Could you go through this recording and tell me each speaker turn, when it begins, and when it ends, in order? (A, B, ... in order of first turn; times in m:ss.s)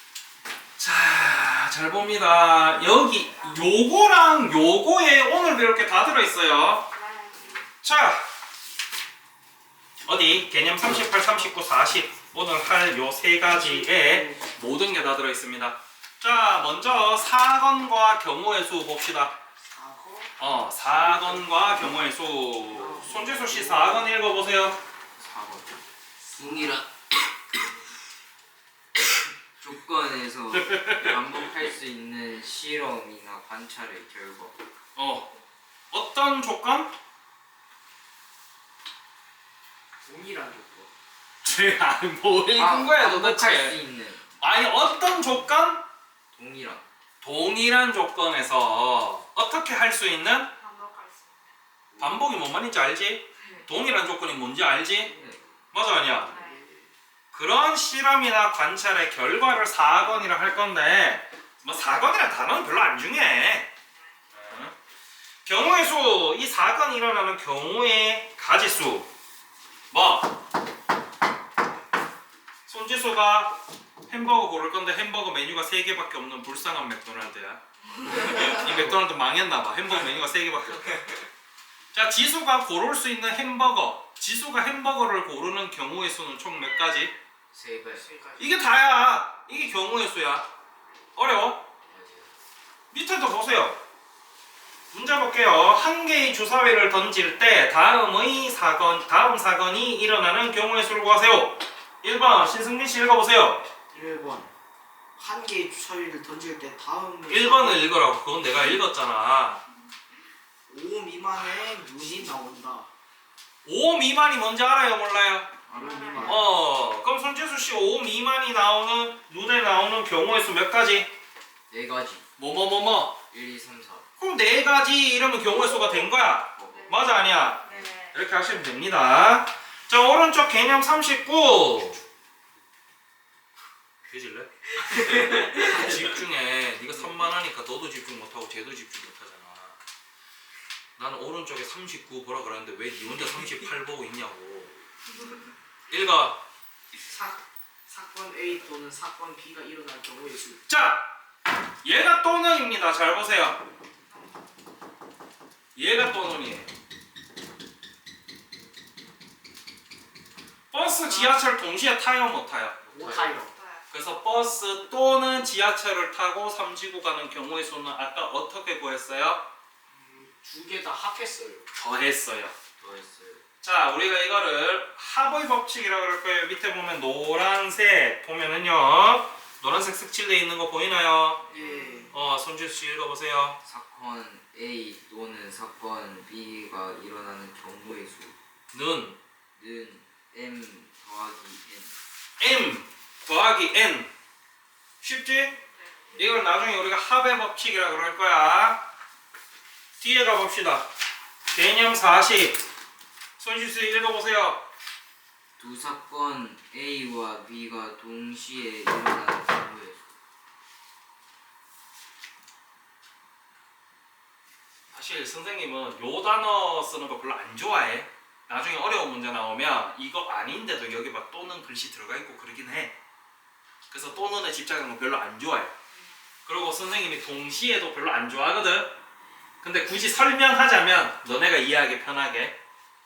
0:00.8-0:06.9 A
0:06.9-0:07.6 B
0:07.8-0:08.2 A
0:10.0-0:19.3 A
0:13.5-0:14.4 C
0:19.6-0:21.7 C
0:20.4-0:24.8 A
0:22.7-0:24.1 C
0:25.2-0:25.8 D
0:26.3-0:26.8 D
0:29.6-0:34.6 D
0:30.5-0:31.2 A
0:35.0-0:35.3 A
0:35.9-0:36.9 A
0:40.0-0:40.9 C
0:41.4-0:43.8 A
0:42.6-0:44.2 D
0:44.4-0:45.8 A
0:46.3-0:46.8 D
0:47.2-0:50.5 A
0:50.6-0:51.4 B
0:51.9-0:52.3 D
0:52.0-0:55.1 A
0:54.9-0:55.4 D
0:55.7-0:56.3 A
0:56.2-0:56.9 C
0:56.2-0:56.6 B
0:57.3-1:03.7 A
1:04.3-1:04.7 A
1:05.4-1:09.1 A
1:09.9-1:10.3 A
1:12.6-1:13.6 A
1:14.1-1:21.0 A
1:21.9-1:27.1 A
1:27.5-1:28.0 D
1:28.0-1:28.4 C
1:28.4-1:30.5 A
1:31.1-1:31.6 A
1:31.9-1:32.3 D
1:32.9-1:33.8 A
1:34.9-1:43.7 A
1:43.9-1:44.5 C
1:45.2-1:47.9 C
1:47.3-1:49.6 A
1:50.7-1:52.9 C
1:53.6-1:55.6 A
1:55.7-1:56.4 C
1:55.8-1:56.4 B
1:56.2-2:01.1 A
2:01.7-2:02.3 D
2:02.4-2:03.2 A
2:03.3-2:04.0 D
2:04.2-2:12.0 A
2:06.6-2:07.0 D
2:07.6-2:07.9 D
2:14.0-2:19.8 A
2:21.0-2:24.7 A
2:25.9-2:26.4 A
2:27.1-2:30.6 C
2:30.7-2:31.1 A
2:31.8-2:33.6 A
2:35.8-2:36.7 A
2:40.7-2:42.8 A
2:42.8-2:43.4 D
2:42.9-2:43.6 C
2:43.6-2:43.8 B
2:43.9-2:49.4 A
2:49.9-2:51.6 C
2:51.7-2:52.5 A
2:52.8-2:53.4 D
2:53.6-3:01.4 A
3:01.4-3:01.9 D
3:01.5-3:02.1 C
3:02.1-3:03.6 A
3:03.6-3:08.4 D
3:08.7-3:09.2 A
3:09.6-3:11.9 D
3:12.4-3:14.1 A
3:15.0-3:15.6 A
3:16.2-3:18.8 A
3:20.0-3:20.9 A
3:21.5-3:22.6 A
3:23.4-3:24.6 A
3:25.6-3:30.0 D
3:34.9-3:42.9 A
3:43.9-3:45.7 A
3:46.4-3:49.0 A
3:49.6-3:52.6 A